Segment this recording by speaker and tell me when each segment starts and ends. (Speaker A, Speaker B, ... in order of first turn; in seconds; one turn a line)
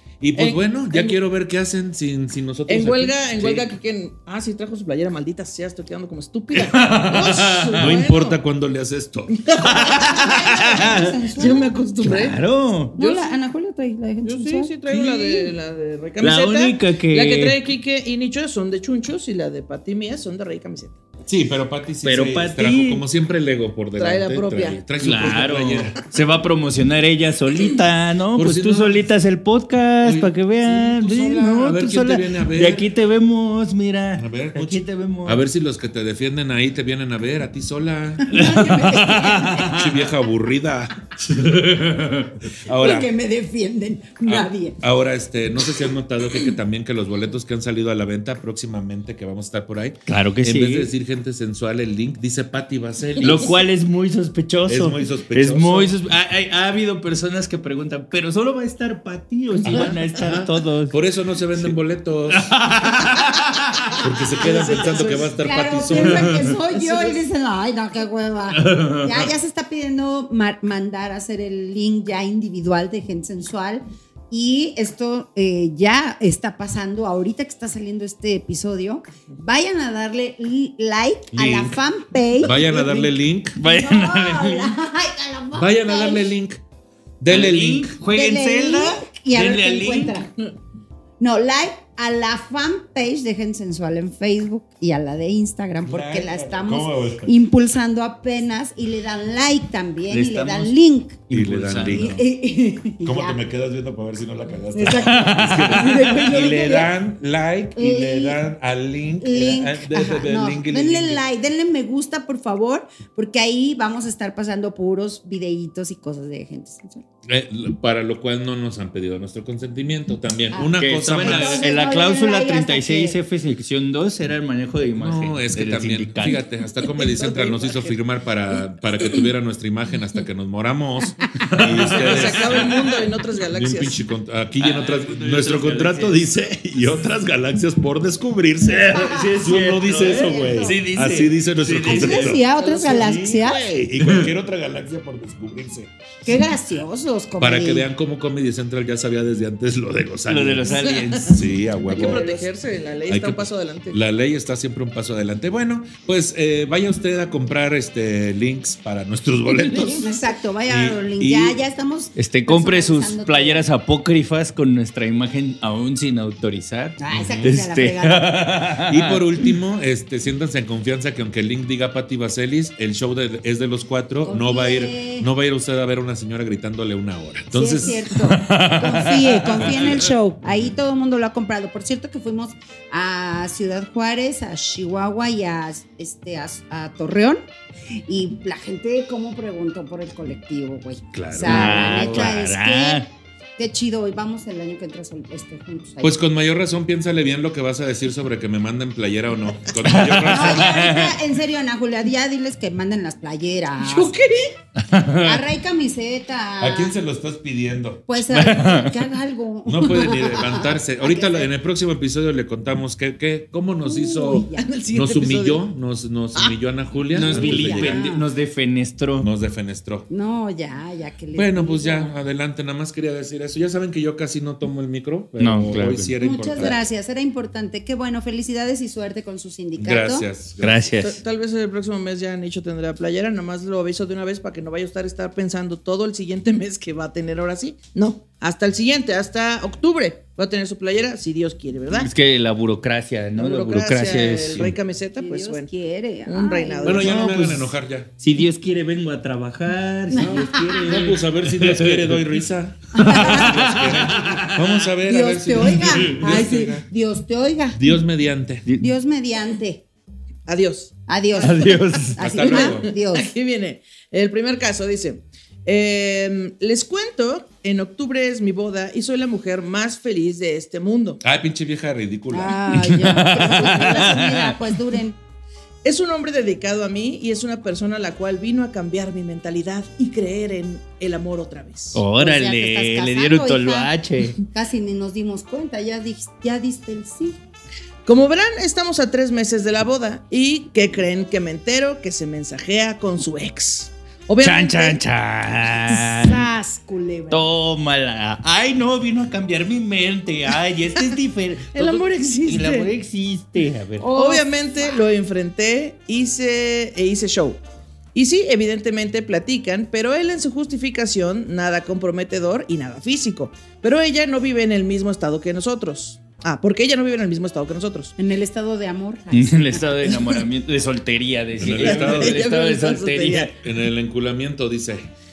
Speaker A: 0.2-3.2
Speaker B: 0.3-1.2
Speaker B: 2.7-8.4
Speaker C: 3.4-3.6
Speaker C: 6.5-8.0
Speaker A: 7.8-9.3
Speaker B: 9.3-12.3
Speaker C: 9.6-11.3
Speaker D: 9.8-11.7
Speaker C: 12.0-12.9
Speaker D: 12.9-14.7
Speaker B: 13.0-13.3
Speaker B: 14.2-21.0
Speaker C: 14.9-15.5
Speaker C: 16.2-17.6
Speaker A: 21.2-26.0
Speaker C: 22.0-23.0
Speaker B: 24.0-24.8
Speaker C: 25.0-35.5
Speaker A: 28.3-29.0
Speaker A: 30.0-32.9
Speaker A: 34.2-38.6
Speaker D: 38.3-39.8
Speaker C: 38.3-40.0
Speaker A: 39.6-41.1
Speaker C: 41.2-42.3
Speaker A: 42.6-43.1
Speaker D: 42.7-44.8
Speaker A: 44.2-53.5
Speaker C: 50.1-50.9
Speaker C: 53.2-61.0
Speaker A: 54.7-55.9
Speaker A: 59.6-62.5
Speaker C: 62.3-64.9
Speaker A: 64.0-66.5
Speaker D: 64.4-86.3
Speaker B: 64.5-65.2
Speaker C: 65.9-67.0
Speaker C: 68.5-69.3
Speaker A: 81.3-81.8
Speaker A: 82.4-83.6
Speaker C: 83.6-84.7
Speaker A: 85.5-86.6
Speaker A: 87.2-88.0
Speaker C: 87.3-90.2
Speaker D: 88.1-90.3
Speaker D: 91.2-103.4
Speaker A: 95.8-97.3
Speaker C: 100.1-100.7
Speaker C: 101.3-102.2
Speaker A: 101.3-102.2
Speaker A: 103.0-111.2
Speaker D: 104.7-106.9
Speaker C: 104.8-106.4
Speaker D: 107.8-108.4
Speaker D: 109.2-117.0
Speaker A: 117.3-121.7
Speaker D: 120.5-123.2
Speaker C: 120.7-126.4
Speaker A: 125.0-132.9
Speaker D: 126.8-128.0
Speaker C: 131.5-132.7
Speaker B: 131.9-134.0
Speaker A: 133.5-145.9
Speaker C: 134.6-136.3
Speaker C: 138.6-142.4
Speaker D: 138.9-140.8
Speaker D: 141.8-143.7
Speaker B: 142.5-143.5
Speaker C: 144.0-144.3
Speaker D: 146.2-147.9
Speaker A: 147.4-152.3
Speaker C: 150.3-152.2
Speaker B: 150.9-151.3
Speaker D: 151.9-152.3
Speaker B: 151.9-154.0
Speaker A: 153.1-160.1
Speaker D: 159.7-163.7
Speaker A: 160.7-161.6
Speaker C: 162.2-169.5
Speaker D: 167.0-168.5
Speaker A: 167.1-167.6
Speaker A: 168.8-178.2
Speaker D: 174.2-175.3
Speaker D: 177.5-196.2
Speaker C: 178.1-180.1
Speaker A: 180.4-180.7
Speaker A: 191.1-192.3
Speaker C: 191.4-193.1
Speaker A: 196.0-201.0
Speaker C: 199.8-201.1
Speaker D: 200.3-204.1
Speaker B: 203.9-204.5
Speaker C: 204.8-205.4
Speaker D: 205.2-207.0
Speaker A: 206.6-208.0
Speaker D: 208.1-211.5
Speaker C: 208.3-209.1
Speaker A: 209.7-218.1
Speaker D: 213.8-214.7
Speaker B: 214.5-215.6
Speaker C: 217.1-219.3
Speaker D: 217.2-218.2
Speaker A: 219.2-220.1
Speaker D: 220.1-222.1
Speaker A: 221.3-226.8
Speaker C: 225.4-226.7
Speaker D: 226.2-230.3
Speaker A: 229.8-230.9
Speaker C: 230.6-231.2
Speaker B: 231.0-242.1
Speaker C: 241.9-244.7
Speaker B: 243.4-245.7
Speaker D: 245.2-247.3
Speaker B: 246.2-247.6
Speaker A: 246.8-248.1
Speaker C: 247.2-247.7
Speaker C: 248.2-252.2
Speaker D: 250.1-251.0
Speaker A: 250.1-256.9
Speaker D: 252.9-253.8
Speaker C: 253.0-254.9
Speaker D: 255.1-257.9
Speaker C: 255.7-256.4
Speaker A: 257.7-258.6
Speaker D: 258.8-259.8
Speaker B: 260.5-260.9
Speaker D: 261.1-263.3
Speaker C: 261.4-262.3
Speaker A: 262.2-262.9
Speaker B: 262.5-271.2
Speaker A: 271.2-272.8
Speaker D: 272.3-275.2
Speaker C: 272.7-274.6
Speaker B: 275.8-282.0
Speaker C: 281.9-284.4
Speaker D: 282.2-283.9
Speaker D: 284.5-287.4
Speaker B: 288.1-295.0
Speaker C: 294.4-296.5
Speaker D: 295.9-297.5
Speaker C: 297.3-304.1
Speaker B: 301.7-302.9
Speaker D: 304.0-305.1
Speaker B: 304.1-307.6
Speaker B: 308.1-318.1
Speaker D: 318.2-320.2
Speaker C: 319.3-323.5
Speaker A: 321.6-322.4
Speaker B: 321.6-323.5
Speaker A: 323.6-325.1